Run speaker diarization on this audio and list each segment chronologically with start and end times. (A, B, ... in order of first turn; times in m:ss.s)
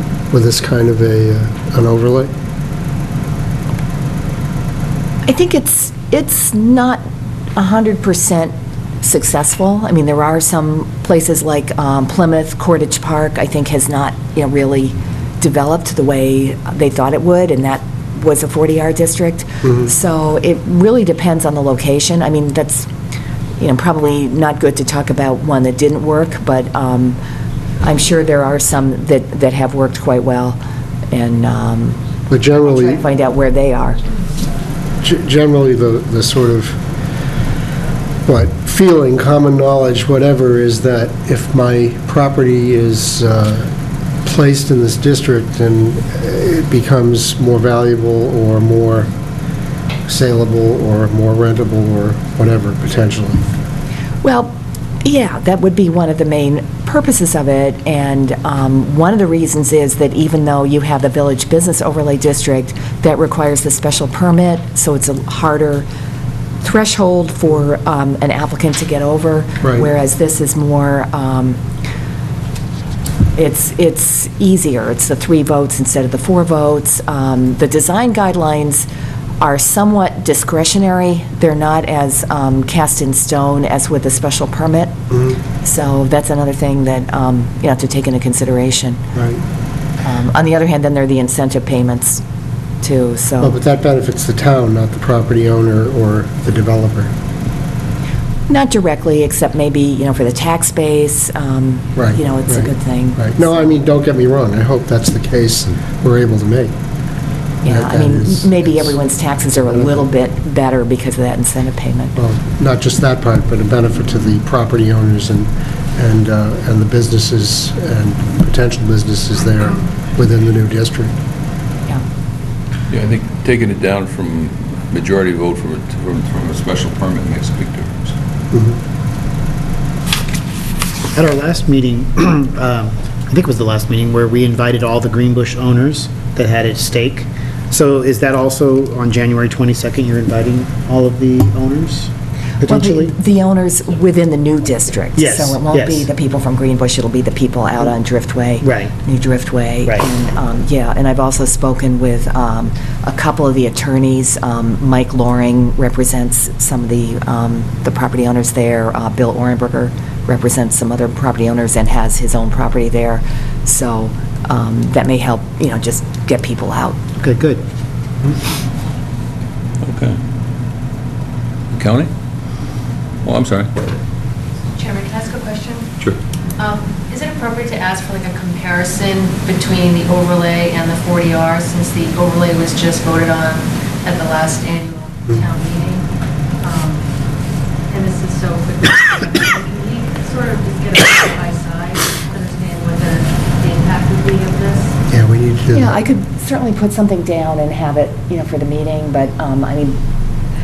0:00.3-0:02.3 A
0:05.2-0:07.0 B
0:07.6-0:22.9 B
0:19.6-0:19.9 A
0:23.6-0:27.2 B
0:27.8-0:30.6 B
0:31.1-0:32.0 B
0:32.3-0:33.0 A
0:32.6-0:34.0 B
0:35.0-0:36.8 A
0:38.2-0:43.7 A
0:44.2-0:49.1 A
0:50.1-0:53.4 A
0:54.2-1:05.8 B
1:06.6-1:11.6 B
1:09.6-1:09.9 A
1:13.4-1:18.9 B
1:19.4-1:24.9 B
1:25.1-1:25.4 A
1:25.6-1:29.0 B
1:29.1-1:29.4 A
1:30.0-1:32.2 B
1:32.8-1:33.6 B
1:33.4-1:37.1 A
1:38.5-1:43.7 B
1:42.0-1:46.7 A
1:47.6-1:52.2 B
1:47.7-1:49.0 A
1:49.7-1:50.0 A
1:52.2-2:01.1 A
2:02.9-2:08.1 C
2:08.5-2:08.8 A
2:11.1-2:23.1 D
2:22.6-2:47.0 B
2:25.2-2:26.1 D
2:28.6-2:28.9 D
2:47.2-2:47.6 D
2:49.8-2:50.2 C
2:51.7-2:52.1 C
2:53.2-2:53.7 C
2:54.7-2:55.9 E
2:56.6-3:06.1 E
3:06.6-3:07.1 E
3:07.9-3:15.0 E
3:15.1-3:15.9 A
3:15.7-3:20.0 B